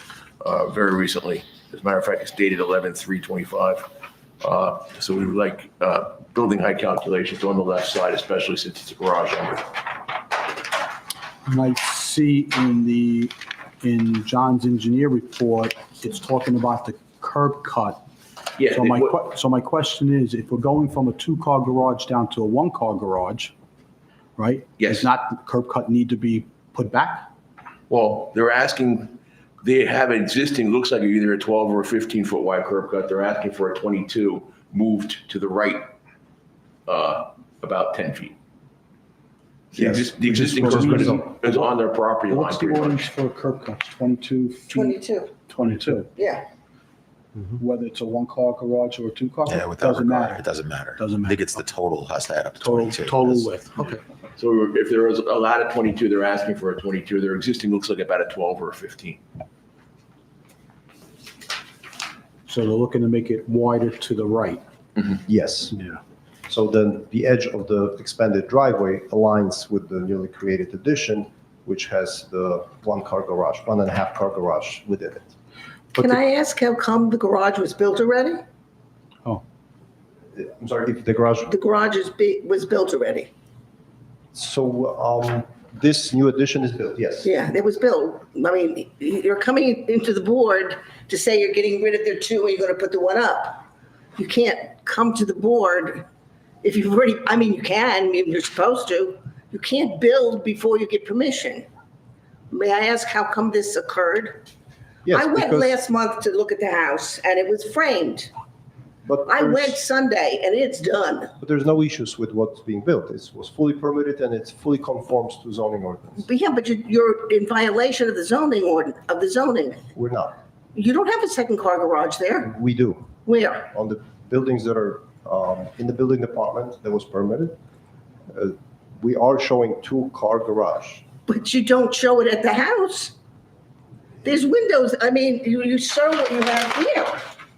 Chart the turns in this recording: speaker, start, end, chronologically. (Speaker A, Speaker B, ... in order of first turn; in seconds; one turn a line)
Speaker A: 0.4-3.9
Speaker A: 4.4-9.7
Speaker B: 11.4-18.0
Speaker A: 18.6-19.1
Speaker B: 18.6-23.5
Speaker B: 24.4-27.3
Speaker A: 24.8-25.1
Speaker A: 27.9-35.9
Speaker A: 36.9-38.4
Speaker A: 39.7-43.1
Speaker C: 39.8-41.0
Speaker B: 40.2-41.3
Speaker B: 42.3-46.1
Speaker D: 44.7-45.4
Speaker D: 46.1-46.5
Speaker B: 47.5-51.6
Speaker E: 49.5-53.5
Speaker B: 52.6-54.0
Speaker A: 54.4-59.2
Speaker B: 62.5-64.6
Speaker C: 65.2-65.8
Speaker C: 66.5-75.3
Speaker D: 76.0-78.4
Speaker C: 80.3-81.5
Speaker D: 81.5-83.3
Speaker C: 84.3-87.3
Speaker D: 87.2-93.6
Speaker D: 94.2-96.1
Speaker D: 96.6-101.7
Speaker D: 102.5-104.4
Speaker C: 105.0-105.7
Speaker D: 105.1-108.3
Speaker C: 109.0-109.8
Speaker D: 109.2-111.3
Speaker C: 111.4-116.2
Speaker D: 116.2-119.8
Speaker C: 119.9-120.3
Speaker D: 120.7-122.5
Speaker C: 122.4-123.1
Speaker D: 123.2-123.7
Speaker C: 123.6-127.5
Speaker C: 128.3-131.0
Speaker D: 131.3-133.1
Speaker D: 134.2-137.2